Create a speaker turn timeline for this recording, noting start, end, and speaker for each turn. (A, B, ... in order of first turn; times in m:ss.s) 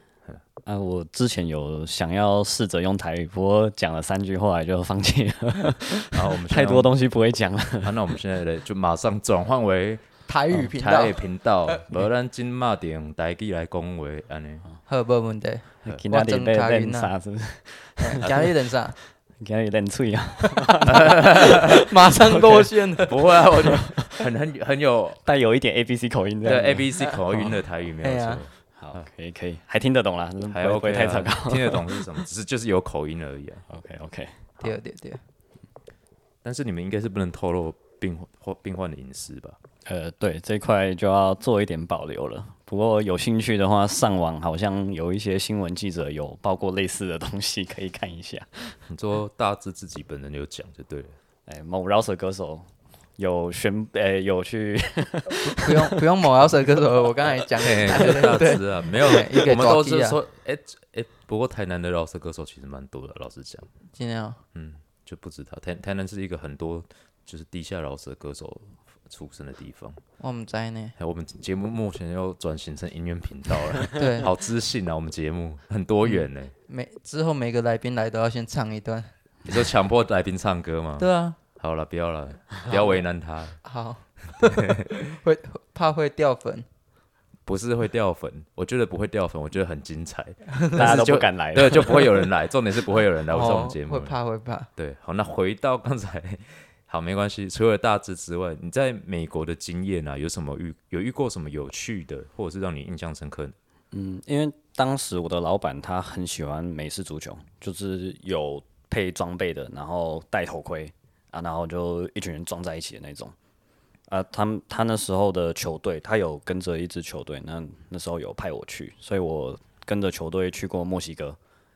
0:00.6-0:08.0 A
0:06.1-0:06.9 B
0:07.8-0:14.7 B
0:10.3-0:11.8 C
0:14.8-0:17.1 C
0:15.8-0:18.5 A
0:18.0-0:19.0 C
0:19.4-0:21.6 A
0:20.7-0:23.2 C
0:20.9-0:21.8 B
0:23.0-0:25.2 B
0:25.2-0:26.9 A
0:26.4-0:29.0 B
0:27.0-0:27.5 C
0:28.0-0:28.4 C
0:28.8-0:32.1 A
0:30.5-0:33.6 B
0:33.7-0:34.4 A
0:34.6-0:35.2 C
0:36.4-0:39.6 B
0:39.8-0:48.8 A
0:48.9-0:51.2 B
0:51.5-0:56.0 A
0:55.4-1:00.2 C
0:57.6-1:03.7 B
1:03.9-1:04.4 C
1:04.5-1:10.0 B
1:10.2-1:10.9 C
1:11.0-1:16.5 B
1:14.0-1:14.3 C
1:16.0-1:19.1 C
1:19.4-1:23.6 B
1:21.0-1:21.4 C
1:22.7-1:23.0 C
1:23.6-1:26.7 C
1:24.4-1:24.8 B
1:27.4-1:34.2 B
1:30.5-1:30.8 C
1:30.7-1:32.2 A
1:33.3-1:34.7 C
1:34.8-1:43.6 B
1:43.9-1:53.3 A
1:54.1-2:01.4 A